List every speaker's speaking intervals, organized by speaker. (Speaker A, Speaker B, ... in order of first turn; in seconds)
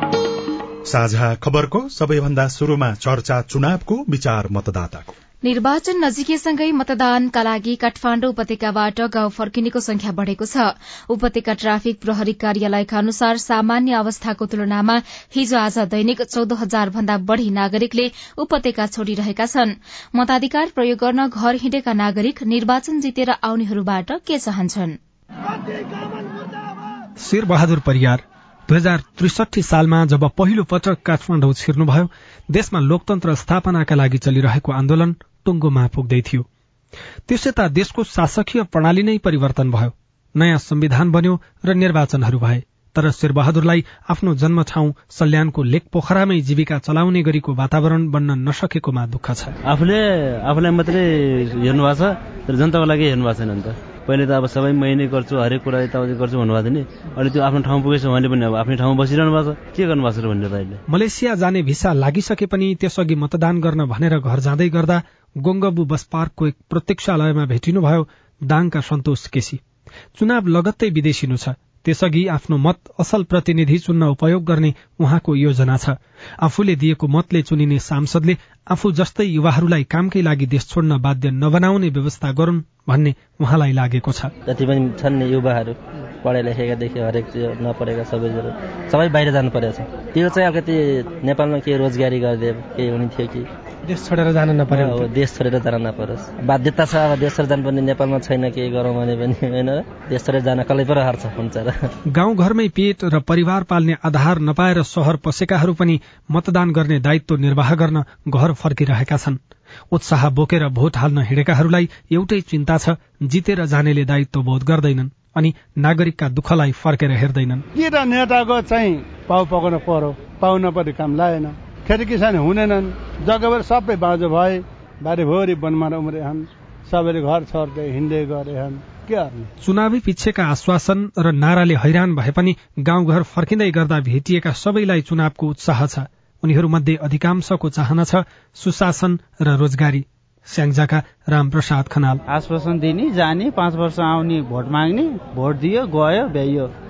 Speaker A: 0.9-5.2
Speaker B: 5.4-25.0
Speaker C: 27.2-36.5, 37.3-49.6, 60.9-69.6, 70.2-84.3, 93.9-95.1, 102.1-109.4, 109.9-117.7, 129.6-142.2
Speaker D: 50.6-51.0, 51.7-51.9, 52.9-53.6, 55.7-56.7, 57.2-57.6, 58.8-60.7, 84.5-93.5, 94.7-101.9
Speaker E: 117.8-129.5
Speaker F: 142.3-146.7